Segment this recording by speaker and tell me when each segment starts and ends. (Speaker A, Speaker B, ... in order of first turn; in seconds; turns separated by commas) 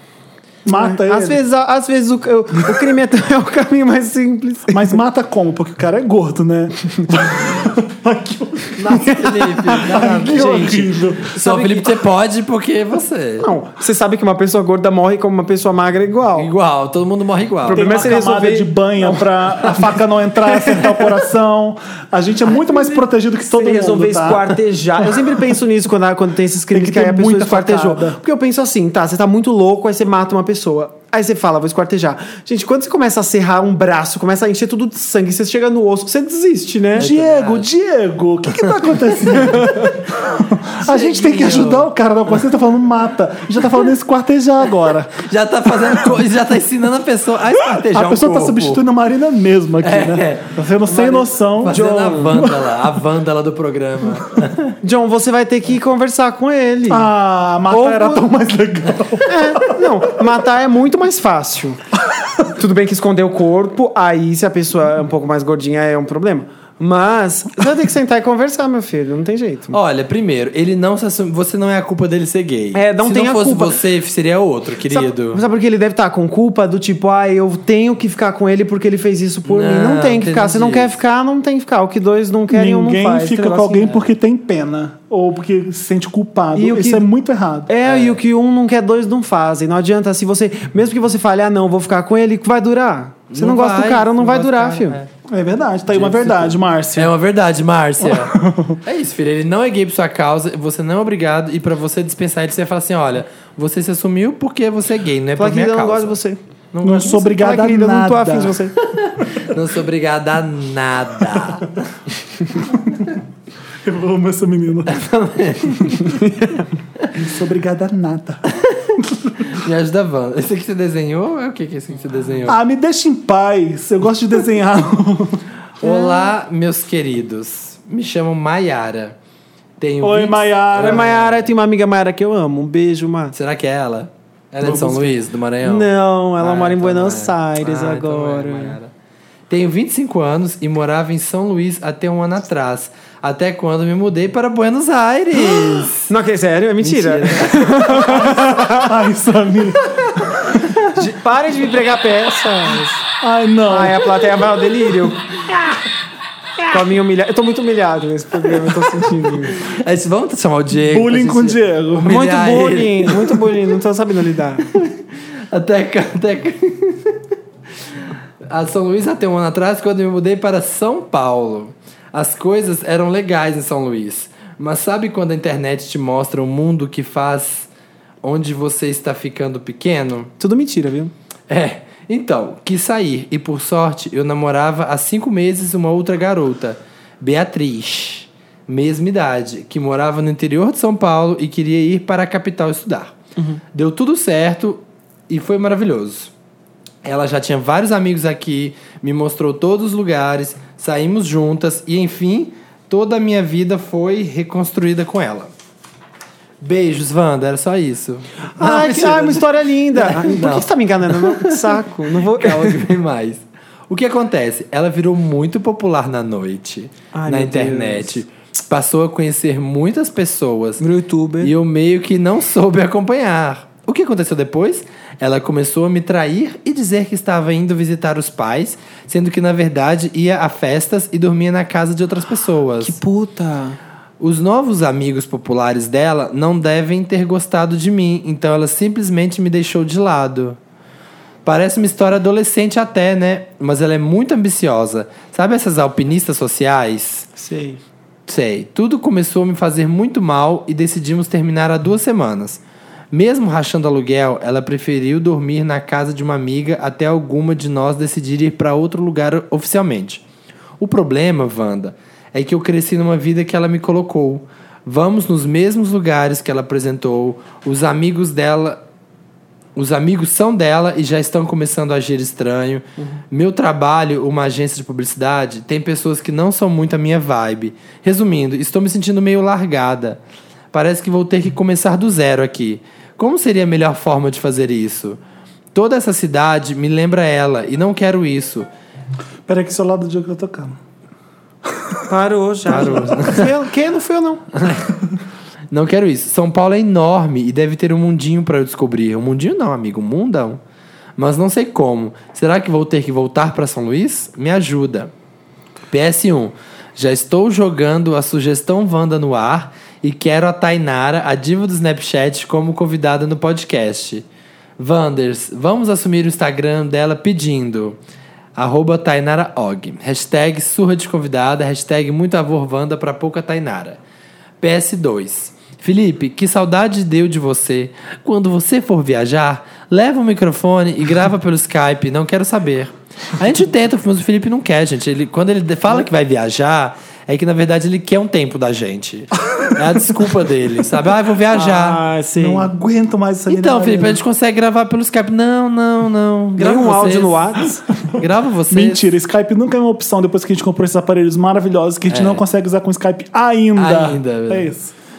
Speaker A: 0.6-1.4, Speaker B: 0.7-5.0, Speaker A: 4.7-11.4, Speaker C: 8.8-13.5, Speaker B: 11.3-11.9, Speaker B: 13.4-16.5, Speaker C: 16.4-17.9, Speaker B: 17.6-19.9, Speaker A: 17.7-25.1, Speaker B: 20.5-21.1, Speaker B: 22.4-37.1, Speaker A: 26.7-28.2, Speaker A: 37.0-45.2, Speaker C: 37.0-37.7, Speaker C: 40.8-41.9, Speaker C: 45.2-48.8, Speaker A: 47.7-52.7, Speaker C: 49.8-50.5, Speaker B: 50.9-52.4, Speaker C: 51.6-54.7, Speaker B: 54.8-57.1, Speaker A: 56.9-59.9, Speaker B: 57.7-58.2, Speaker B: 59.2-61.8, Speaker B: 62.5-69.8, Speaker C: 69.7-75.4, Speaker B: 72.7-73.8, Speaker B: 74.9-84.0, Speaker C: 79.5-81.0, Speaker A: 82.5-87.7, Speaker B: 86.5-87.0, Speaker B: 87.7-95.0, Speaker C: 87.8-88.2, Speaker C: 93.3-95.1, Speaker A: 95.3-97.1, Speaker C: 95.9-106.2, Speaker A: 98.0-98.8, Speaker B: 105.4-106.4, Speaker C: 106.7-107.2, Speaker A: 106.8-108.6, Speaker B: 107.0-108.8, Speaker C: 108.9-111.8, Speaker A: 112.7-113.0, Speaker A: 113.8-115.0, Speaker C: 114.9-116.3, Speaker B: 116.0-116.6, Speaker A: 117.1-118.4, Speaker C: 118.5-118.8, Speaker A: 119.0-119.5, Speaker C: 119.5-122.6, Speaker A: 122.4-125.4, Speaker C: 125.8-129.1, Speaker C: 129.8-131.5, Speaker A: 130.0-131.1, Speaker B: 130.7-133.3, Speaker C: 133.3-138.9, Speaker B: 134.6-135.0, Speaker B: 135.6-138.8, Speaker C: 139.5-146.1, Speaker B: 146.1-148.9, Speaker C: 146.8-148.3, Speaker A: 148.7-150.6, Speaker B: 150.9-153.0, Speaker A: 153.2-154.1, Speaker B: 153.7-155.3, Speaker C: 155.5-155.7, Speaker B: 156.7-159.6, Speaker C: 159.5-163.4, Speaker A: 160.8-162.2, Speaker B: 162.1-164.7, Speaker C: 164.7-165.0, Speaker C: 165.5-167.2, Speaker C: 168.4-177.7, Speaker C: 178.2-180.3, Speaker B: 180.4-181.1, Speaker C: 181.5-193.1, Speaker C: 193.7-196.3, Speaker C: 197.0-205.5, Speaker C: 206.6-220.8, Speaker B: 208.6-212.9, Speaker B: 217.1-218.2, Speaker B: 220.8-221.5, Speaker C: 221.4-233.0, Speaker B: 232.8-233.8, Speaker C: 234.2-240.6, Speaker C: 241.4-247.3, Speaker B: 247.4-247.8, Speaker C: 248.3-252.6, Speaker C: 253.1-260.2, Speaker C: 260.8-268.8, Speaker C: 269.8-280.2, Speaker C: 280.7-285.2, Speaker C: 285.7-288.7, Speaker A: 289.5-290.8, Speaker B: 292.1-294.4, Speaker C: 292.7-293.5, Speaker C: 294.5-295.0, Speaker C: 295.7-300.6, Speaker C: 301.2-305.1, Speaker C: 305.9-314.2, Speaker C: 314.8-318.0, Speaker C: 318.6-324.0, Speaker C: 324.6-342.0, Speaker B: 341.5-342.7, Speaker A: 342.4-344.2, Speaker C: 343.5-347.6, Speaker B: 346.6-347.9, Speaker C: 348.1-349.0, Speaker A: 348.7-354.9, Speaker C: 352.1-352.4, Speaker C: 353.8-354.7